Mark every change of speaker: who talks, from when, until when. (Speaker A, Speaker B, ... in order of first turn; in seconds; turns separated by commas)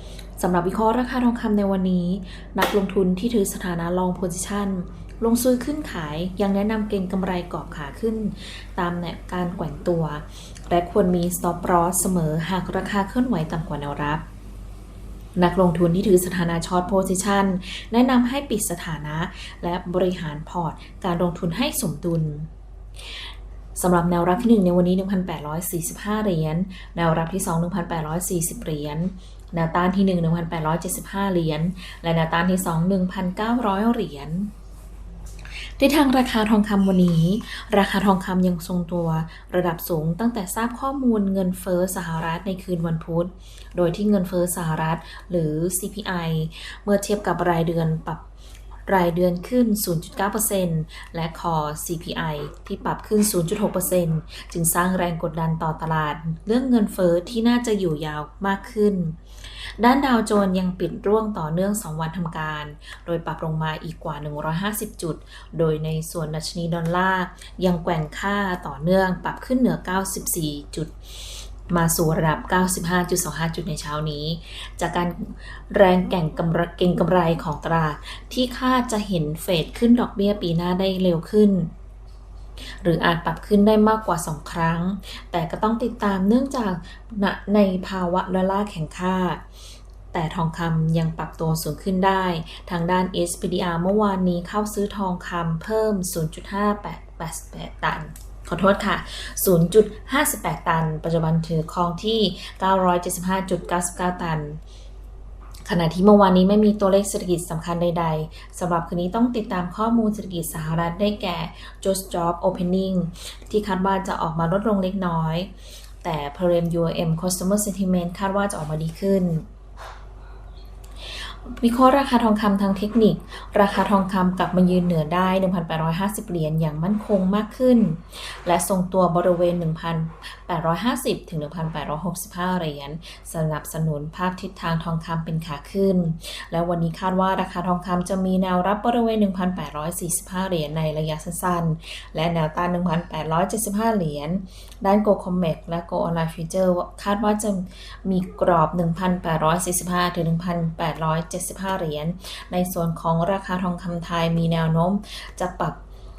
Speaker A: 0.4-14.2, Speaker A: 15.4-22.5, Speaker A: 23.8-34.5, Speaker A: 35.8-48.2, Speaker A: 48.9-59.2, Speaker A: 59.8-70.9, Speaker A: 71.7-81.7, Speaker A: 82.8-89.4, Speaker A: 90.1-104.6, Speaker A: 105.6-115.5, Speaker A: 116.0-119.5, Speaker A: 121.3-155.8